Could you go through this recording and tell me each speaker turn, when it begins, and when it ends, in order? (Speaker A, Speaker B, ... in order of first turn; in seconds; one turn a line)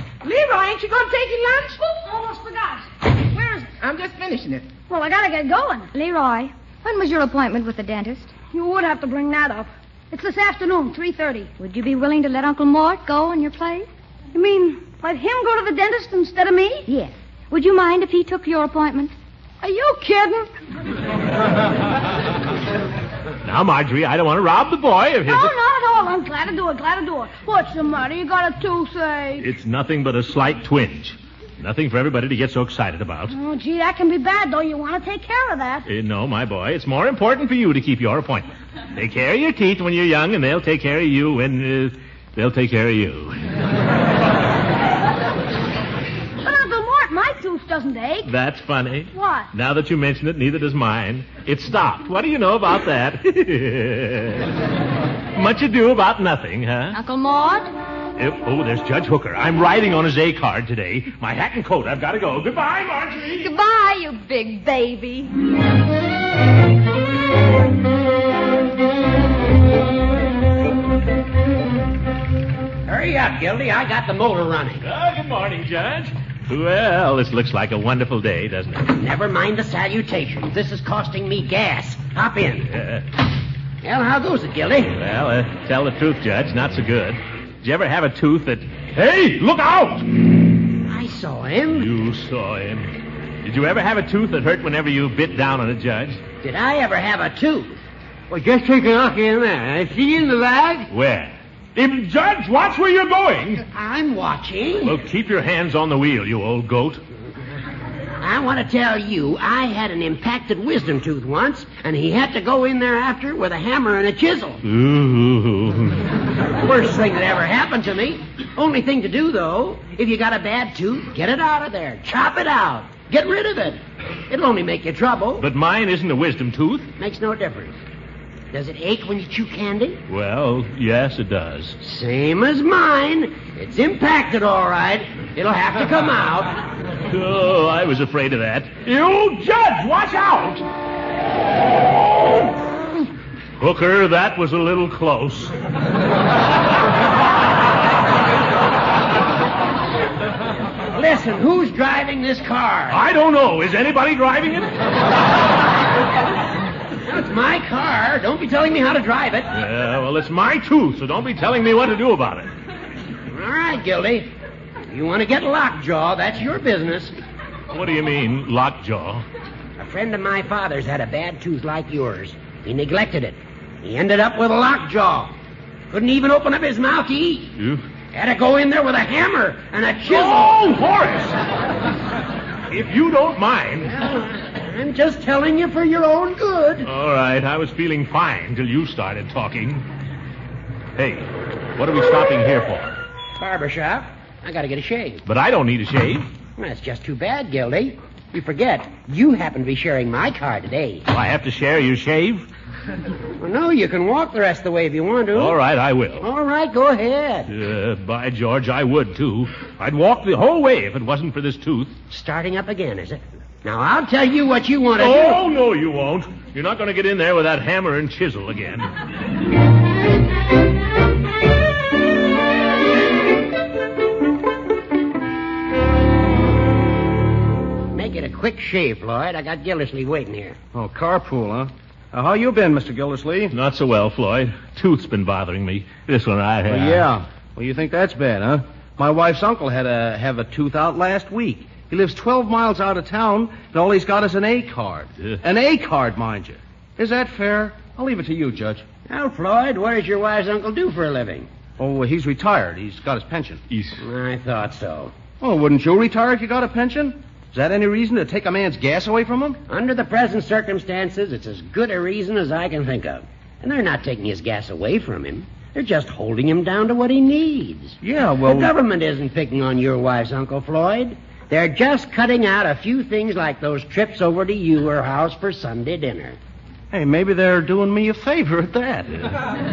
Speaker A: 0.2-2.0
Speaker B: 2.0-3.7
Speaker A: 3.8-4.7
Speaker B: 4.9-5.9
Speaker C: 5.9-8.3
Speaker B: 8.5-11.5
Speaker C: 11.6-13.9
Speaker B: 14.3-16.9
Speaker C: 16.9-19.1
Speaker B: 19.6-20.5
Speaker D: 23.4-25.5
Speaker B: 25.3-29.5
Speaker D: 29.4-33.4
Speaker B: 33.3-35.9
Speaker D: 35.9-43.4
Speaker B: 46.4-48.3
Speaker D: 48.2-54.5
Speaker B: 49.1-49.5
Speaker D: 55.3-57.0
Speaker C: 56.9-57.7
Speaker D: 58.2-63.5
Speaker C: 63.4-65.3
Speaker E: 72.8-74.8
Speaker D: 74.8-78.9
Speaker E: 78.9-82.7
Speaker D: 82.7-83.0
Speaker E: 83.8-85.0
Speaker D: 84.9-90.2
Speaker E: 90.8-91.9
Speaker D: 91.7-96.2
Speaker E: 96.4-97.8
Speaker E: 98.3-100.9
Speaker D: 100.9-103.6
Speaker E: 103.7-105.0
Speaker D: 104.8-107.0
Speaker E: 108.2-114.6
Speaker D: 114.6-116.1
Speaker E: 116.6-125.5
Speaker D: 125.4-126.9
Speaker E: 127.0-127.7
Speaker E: 128.5-130.0
Speaker D: 130.1-131.8
Speaker E: 131.8-136.6
Speaker D: 137.1-140.6
Speaker D: 143.6-145.5
Speaker E: 150.9-153.0
Speaker D: 152.9-154.7
Speaker E: 157.0-159.5
Speaker D: 159.5-162.5
Speaker E: 163.3-164.3
Speaker E: 164.9-167.1
Speaker D: 167.7-169.2
Speaker E: 169.8-175.3
Speaker E: 175.9-177.5
Speaker D: 177.6-177.8
Speaker E: 178.1-180.6
Speaker D: 180.1-181.4
Speaker D: 182.7-183.9
Speaker E: 183.9-186.9
Speaker D: 186.8-189.9
Speaker D: 190.9-193.0
Speaker E: 193.4-195.2
Speaker D: 195.2-196.3
Speaker E: 196.6-201.1
Speaker D: 201.1-202.5
Speaker E: 203.4-205.6
Speaker D: 205.3-206.3
Speaker E: 206.2-207.5
Speaker D: 207.5-211.9
Speaker E: 212.1-215.4
Speaker D: 215.0-218.9
Speaker E: 227.9-230.6
Speaker F: 230.7-233.5
Speaker D: 233.5-237.1
Speaker F: 236.7-248.8
Speaker E: 249.1-251.5
Speaker F: 251.8-253.6
Speaker D: 253.7-254.0
Speaker E: 254.0-255.1
Speaker F: 255.4-259.6
Speaker E: 259.7-276.4
Speaker F: 268.0-268.7
Speaker F: 276.9-279.3